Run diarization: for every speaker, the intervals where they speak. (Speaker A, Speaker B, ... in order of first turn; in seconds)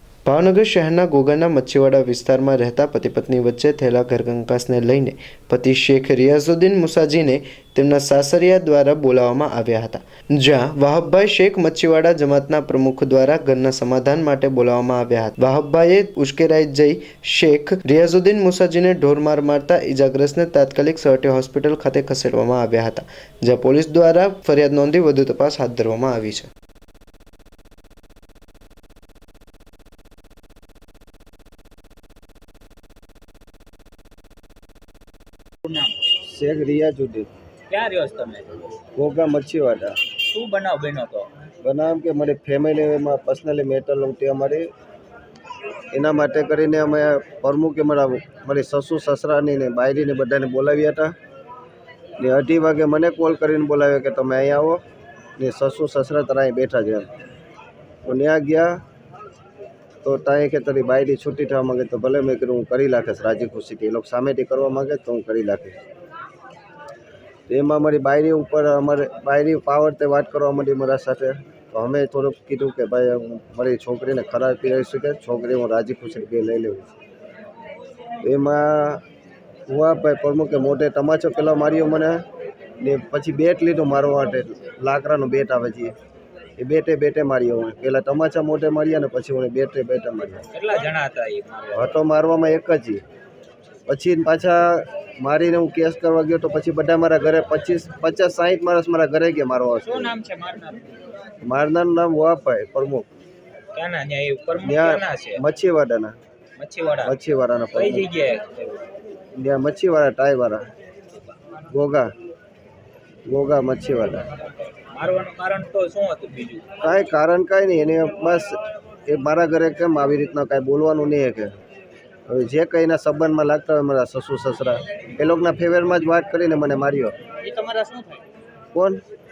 Speaker A: 0.2-26.5
Speaker B: 35.6-35.9, 37.7-38.5, 40.2-41.3, 90.5-92.0, 99.8-100.9, 103.7-105.4, 106.6-107.1, 107.7-108.8, 114.9-116.7, 127.4-128.2
Speaker C: 36.2-37.3, 39.0-40.0, 41.6-44.7, 45.9-51.1, 52.2-54.8, 55.4-57.1, 58.0-58.8, 60.0-65.8, 67.5-76.9, 78.2-79.0, 79.7-82.2, 82.8-85.9, 86.6-90.5, 91.7-93.0, 93.9-100.2, 101.4-103.1, 104.6-106.2, 107.0-108.0, 109.3-110.7, 111.7-112.1, 113.3-114.3, 116.8-121.5, 122.3-127.2, 128.7-129.0